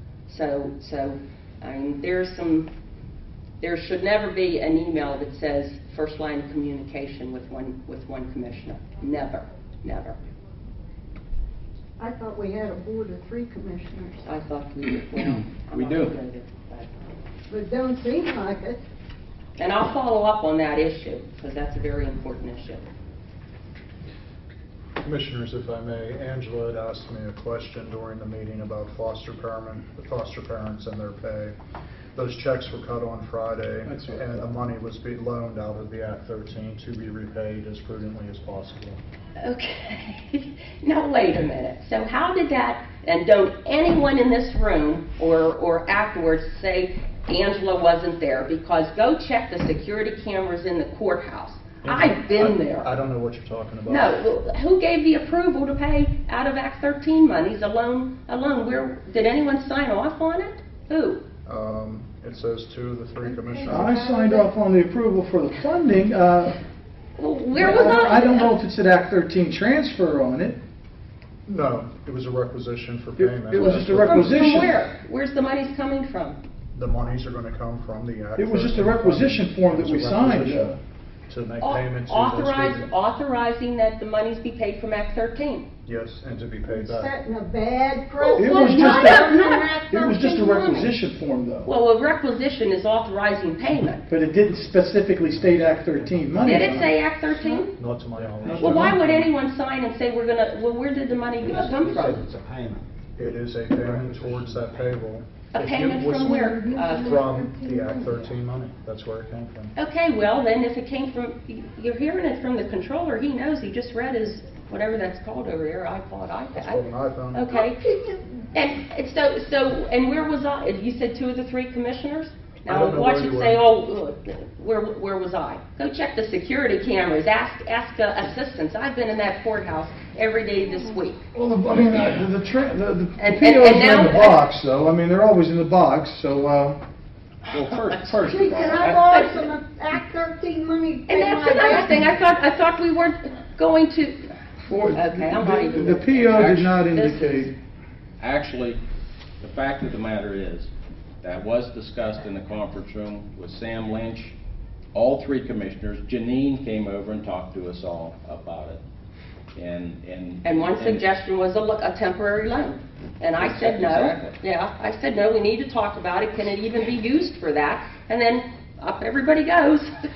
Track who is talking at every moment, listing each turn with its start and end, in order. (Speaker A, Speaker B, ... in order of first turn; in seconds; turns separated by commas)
Speaker A: 0.3-2.7, Speaker A: 3.6-10.2, Speaker B: 12.0-14.3, Speaker A: 14.2-16.9, Speaker C: 15.2-16.1, Speaker B: 17.5-18.8, Speaker A: 19.6-22.9, Speaker D: 25.0-31.5, Speaker D: 32.1-39.0, Speaker E: 33.9-34.3, Speaker A: 39.4-52.9, Speaker D: 51.8-54.2, Speaker A: 53.9-61.2, Speaker D: 61.5-64.0, Speaker B: 63.3-64.5, Speaker E: 63.7-66.6, Speaker A: 67.2-68.5, Speaker E: 67.5-70.6, Speaker D: 71.5-74.7, Speaker E: 73.2-74.8, Speaker A: 73.5-76.4, Speaker D: 76.7-80.7, Speaker E: 78.3-80.8, Speaker D: 81.3-82.9, Speaker A: 81.6-85.7, Speaker D: 85.8-87.1, Speaker B: 86.7-89.9, Speaker A: 88.2-90.9, Speaker E: 88.4-89.4, Speaker E: 89.9-91.7, Speaker A: 91.6-94.0, Speaker E: 94.1-96.9, Speaker A: 96.4-97.8, Speaker D: 97.8-99.2, Speaker C: 98.4-98.7, Speaker E: 98.4-99.0, Speaker A: 98.6-102.2, Speaker C: 101.4-102.8, Speaker D: 103.2-106.3, Speaker A: 105.5-107.2, Speaker B: 106.2-108.3, Speaker D: 107.0-109.7, Speaker A: 109.8-117.9, Speaker D: 116.5-117.5, Speaker B: 117.8-118.2, Speaker A: 118.5-131.2, Speaker D: 122.7-123.6, Speaker E: 131.3-136.8, Speaker A: 133.2-134.4, Speaker C: 137.5-139.1, Speaker B: 138.3-142.0, Speaker A: 138.9-139.4, Speaker A: 141.1-144.3, Speaker E: 144.7-147.5, Speaker A: 144.9-147.5, Speaker C: 146.3-146.8, Speaker C: 148.2-148.8, Speaker C: 149.4-150.7, Speaker C: 151.2-154.3, Speaker C: 154.9-158.8, Speaker C: 159.5-161.0, Speaker A: 160.4-169.9, Speaker C: 163.4-164.3